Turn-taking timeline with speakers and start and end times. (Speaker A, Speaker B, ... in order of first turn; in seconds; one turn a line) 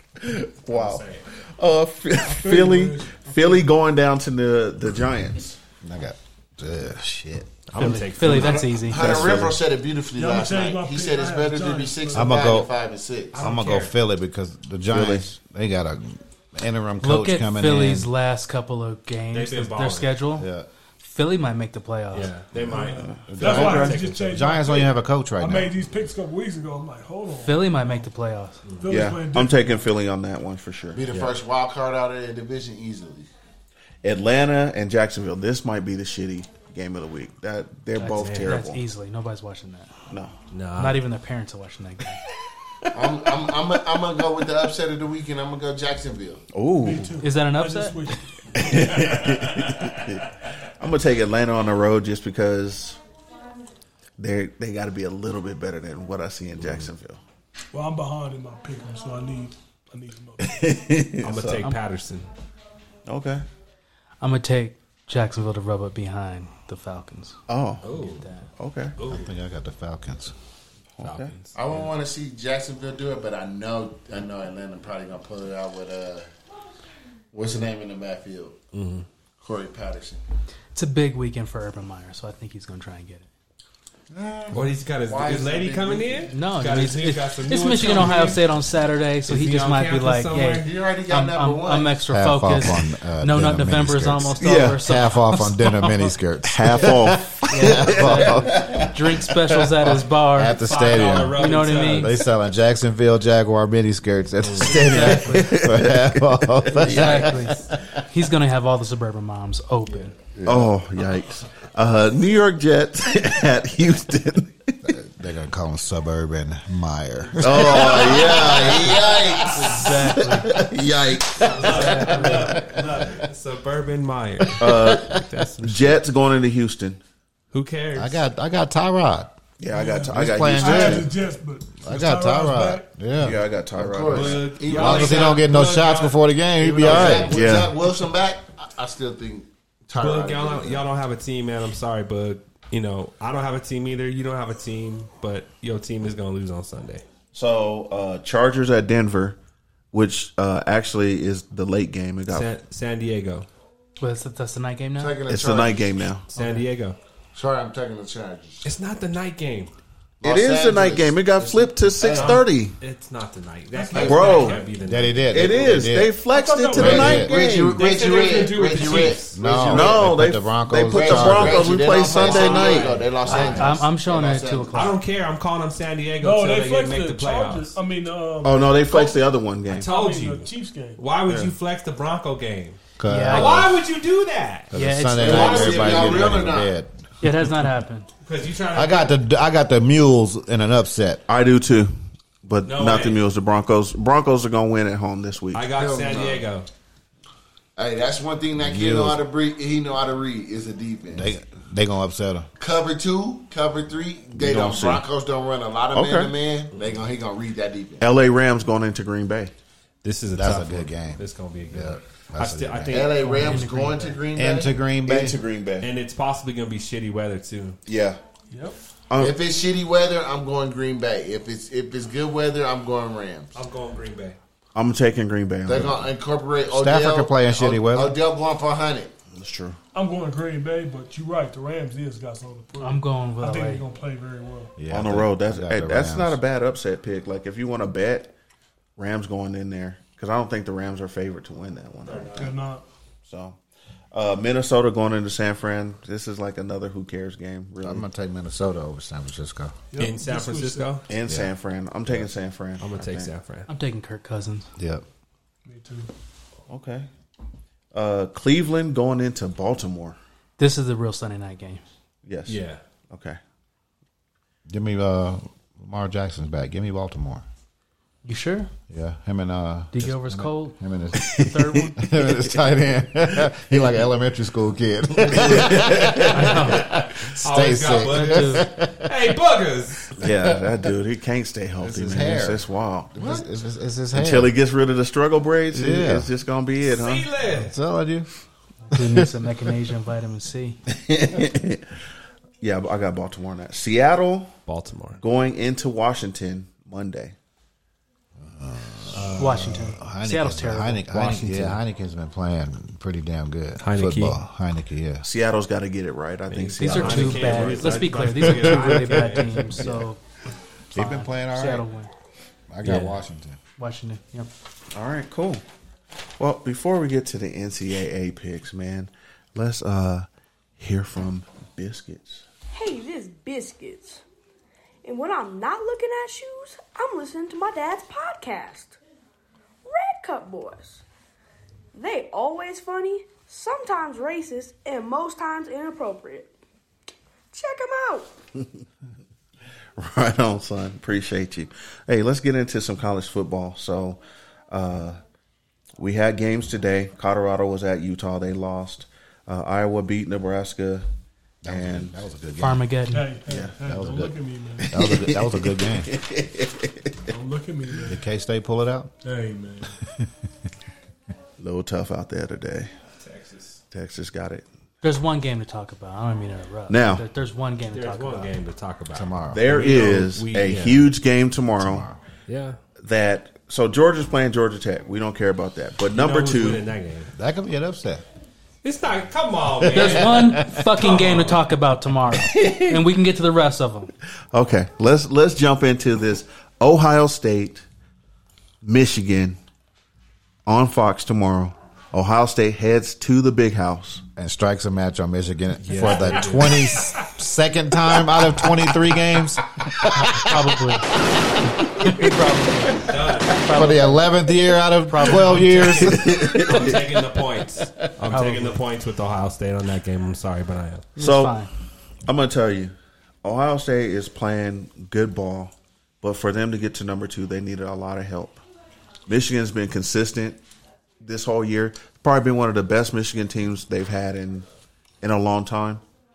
Speaker A: 0.2-5.5
Speaker B: 0.7-1.2
Speaker C: 2.1-3.7
Speaker D: 5.8-7.5
Speaker B: 7.7-9.2
Speaker E: 7.8-9.3
Speaker F: 8.3-13.3
Speaker A: 9.0-9.6
Speaker C: 10.1-12.5
Speaker D: 12.1-12.7
Speaker B: 13.3-13.9
Speaker D: 13.3-18.1
Speaker A: 14.9-15.3
Speaker E: 17.0-20.5
Speaker B: 19.3-20.1
Speaker D: 20.4-20.7
Speaker E: 21.0-22.3
Speaker B: 22.1-24.2
Speaker A: 22.5-24.0
Speaker C: 22.6-27.7
Speaker D: 23.3-25.7
Speaker E: 27.4-28.6
Speaker B: 28.6-29.1
Speaker C: 28.8-29.8
Speaker A: 28.9-31.0
Speaker F: 30.9-33.3
Speaker B: 31.1-31.3
Speaker A: 34.0-38.8
Speaker E: 38.0-39.9
Speaker B: 38.0-38.5
Speaker B: 40.5-41.0
Speaker E: 40.8-42.2
Speaker F: 42.9-46.4
Speaker A: 46.5-47.2
Speaker C: 46.8-48.8
Speaker E: 47.2-48.0
Speaker A: 48.5-50.3
Speaker A: 50.8-53.0
Speaker A: 54.2-57.2
Speaker C: 57.7-60.7
Speaker A: 60.4-61.6
Speaker B: 61.2-62.3
Speaker A: 63.0-63.4
Speaker E: 64.2-67.4
Speaker A: 67.5-67.9
Speaker B: 67.8-68.2
Speaker E: 68.0-68.5
Speaker A: 68.6-69.0
Speaker B: 69.0-69.3
Speaker D: 69.0-70.3
Speaker A: 71.0-71.3
Speaker B: 71.0-71.8
Speaker F: 71.5-76.3
Speaker F: 77.3-78.6
Speaker B: 78.7-79.0
Speaker F: 79.4-80.2
Speaker E: 80.7-83.3
Speaker F: 84.1-86.3
Speaker B: 84.5-88.4
Speaker E: 86.3-95.8
Speaker B: 89.3-90.7
Speaker F: 90.6-92.0
Speaker D: 92.1-98.8
Speaker A: 94.4-94.8
Speaker A: 96.5-98.9
Speaker E: 97.5-100.6
Speaker D: 100.2-107.5
Speaker B: 100.6-102.2
Speaker E: 101.3-102.1
Speaker E: 104.7-105.5
Speaker A: 104.7-107.3
Speaker E: 106.8-110.1
Speaker A: 110.4-114.8
Speaker D: 114.8-118.0
Speaker A: 117.4-119.0
Speaker B: 117.5-119.5
Speaker F: 117.7-119.9
Speaker E: 119.4-120.5
Speaker A: 120.4-121.5
Speaker F: 120.6-122.3
Speaker B: 121.4-126.0
Speaker D: 122.1-122.8
Speaker A: 124.6-127.0
Speaker B: 127.5-128.2
Speaker D: 127.9-129.4
Speaker A: 129.6-131.1
Speaker C: 129.7-132.9
Speaker D: 130.1-131.1
Speaker D: 131.8-133.4
Speaker A: 133.2-134.6
Speaker F: 133.8-135.5
Speaker B: 134.1-136.2
Speaker D: 134.7-137.4
Speaker F: 136.6-140.8
Speaker B: 136.8-137.4
Speaker A: 136.9-137.7
Speaker B: 140.0-147.0
Speaker A: 147.3-149.4
Speaker A: 149.9-152.5
Speaker B: 152.3-153.5
Speaker E: 154.0-155.2
Speaker F: 155.0-156.0
Speaker A: 155.3-156.2
Speaker B: 156.3-157.0
Speaker E: 156.3-156.7
Speaker F: 157.3-158.7
Speaker B: 158.6-159.7
Speaker F: 160.2-162.4
Speaker A: 160.2-162.7
Speaker B: 162.0-165.9
Speaker C: 163.7-164.6
Speaker F: 163.9-164.5
Speaker A: 163.9-164.6
Speaker D: 164.8-166.2
Speaker A: 165.3-168.3
Speaker C: 166.3-167.3
Speaker D: 166.7-167.3
Speaker F: 166.7-170.2
Speaker B: 167.8-169.4
Speaker D: 169.3-171.7
Speaker A: 169.6-173.0
Speaker F: 170.9-174.9
Speaker B: 172.0-173.8
Speaker E: 173.3-175.0
Speaker B: 174.7-177.8
Speaker C: 176.2-179.2
Speaker A: 178.4-179.9
Speaker B: 179.7-184.7
Speaker C: 179.8-181.0
Speaker A: 181.2-181.5
Speaker D: 183.0-183.8
Speaker E: 183.1-183.6
Speaker D: 184.7-186.9
Speaker E: 184.7-185.6
Speaker F: 185.2-186.7
Speaker A: 185.6-186.2
Speaker E: 187.2-188.1
Speaker B: 188.2-189.2
Speaker D: 188.7-191.2
Speaker A: 191.3-195.6
Speaker B: 192.6-193.2
Speaker B: 195.5-196.7
Speaker F: 195.7-196.5
Speaker F: 197.8-201.3
Speaker D: 198.6-199.2
Speaker D: 201.1-202.5
Speaker F: 202.6-208.1
Speaker A: 204.3-205.0
Speaker A: 205.9-206.3
Speaker A: 208.0-209.5
Speaker B: 210.0-213.4
Speaker D: 210.3-213.3
Speaker F: 212.9-214.8
Speaker E: 213.1-214.2
Speaker D: 214.3-215.4
Speaker A: 215.0-215.9
Speaker B: 215.8-217.8
Speaker A: 217.8-218.2
Speaker C: 218.5-218.8
Speaker A: 219.1-219.4
Speaker F: 219.2-223.5
Speaker B: 223.5-224.4
Speaker A: 224.7-226.0
Speaker F: 225.7-229.1
Speaker D: 225.7-225.9
Speaker D: 226.6-228.2
Speaker A: 229.3-229.8
Speaker C: 229.9-234.7
Speaker E: 232.8-233.8
Speaker D: 234.8-236.4
Speaker A: 234.9-238.3
Speaker A: 239.0-242.6
Speaker C: 242.1-242.8
Speaker A: 243.2-243.6
Speaker A: 244.1-248.0
Speaker D: 247.8-249.7
Speaker C: 249.9-251.0
Speaker B: 250.0-251.0
Speaker A: 251.1-253.3
Speaker B: 252.8-253.7
Speaker E: 253.7-254.7
Speaker D: 254.8-255.0
Speaker C: 255.7-256.1
Speaker A: 256.7-257.1
Speaker A: 257.9-260.2
Speaker E: 260.6-261.8
Speaker A: 262.2-263.4
Speaker B: 262.5-262.8
Speaker D: 264.7-267.4
Speaker E: 268.2-268.7
Speaker D: 268.9-279.1
Speaker E: 269.9-272.0
Speaker A: 271.2-271.5
Speaker A: 273.7-274.0
Speaker A: 275.3-276.6
Speaker E: 276.3-276.9
Speaker B: 277.2-280.2
Speaker E: 278.0-278.7
Speaker A: 280.2-283.4
Speaker D: 280.2-280.7
Speaker D: 281.8-284.5
Speaker A: 284.1-287.3
Speaker D: 285.7-286.3
Speaker B: 286.8-287.7
Speaker D: 287.5-288.3
Speaker E: 288.9-290.8
Speaker D: 288.9-289.3
Speaker A: 291.1-291.8
Speaker A: 292.6-294.5
Speaker B: 294.7-295.2
Speaker A: 295.2-297.3
Speaker D: 298.4-305.2
Speaker B: 299.1-299.9
Speaker E: 299.4-301.4
Speaker B: 303.8-304.4
Speaker A: 305.2-308.0
Speaker B: 306.5-309.7
Speaker E: 306.8-310.2
Speaker E: 310.9-312.1
Speaker D: 310.9-311.8
Speaker D: 312.7-313.6
Speaker B: 312.8-313.2
Speaker E: 313.8-314.5
Speaker A: 314.9-315.6
Speaker A: 316.4-320.3
Speaker A: 320.8-322.4
Speaker G: 322.7-324.2
Speaker G: 325.0-329.0
Speaker G: 329.9-331.0
Speaker G: 331.9-336.5
Speaker G: 337.5-338.3
Speaker A: 340.0-344.2
Speaker A: 344.7-345.2
Speaker A: 346.0-351.0
Speaker D: 351.6-352.9
Speaker A: 351.7-352.2
Speaker E: 352.6-353.3
Speaker C: 353.1-354.9
Speaker A: 353.5-353.8
Speaker D: 353.9-354.3
Speaker D: 354.9-356.1
Speaker A: 354.9-357.2
Speaker C: 357.3-358.2
Speaker D: 358.1-359.1
Speaker C: 359.2-359.9
Speaker A: 361.6-362.9
Speaker B: 363.2-363.8
Speaker A: 363.9-364.6
Speaker E: 365.0-368.5
Speaker A: 366.9-367.2
Speaker B: 367.9-371.1
Speaker D: 369.1-369.6
Speaker A: 369.5-372.1
Speaker D: 371.8-372.2
Speaker B: 372.5-372.8
Speaker A: 373.0-376.9
Speaker B: 376.1-377.3
Speaker D: 377.3-378.2
Speaker B: 378.8-381.6
Speaker D: 379.8-380.8
Speaker E: 379.9-384.1
Speaker A: 382.5-382.9
Speaker A: 384.5-387.8
Speaker A: 388.8-389.6
Speaker A: 390.6-394.2
Speaker D: 394.4-400.5
Speaker B: 395.8-397.3
Speaker E: 400.2-401.1
Speaker E: 401.8-404.3
Speaker B: 403.0-403.5
Speaker D: 403.7-406.9
Speaker E: 405.1-406.0
Speaker B: 405.3-411.1
Speaker A: 406.0-407.0
Speaker E: 408.3-408.8
Speaker E: 411.2-411.7
Speaker A: 411.2-411.6
Speaker A: 412.2-412.9
Speaker A: 413.4-418.6
Speaker A: 419.3-420.6
Speaker A: 421.2-424.6
Speaker A: 425.2-426.0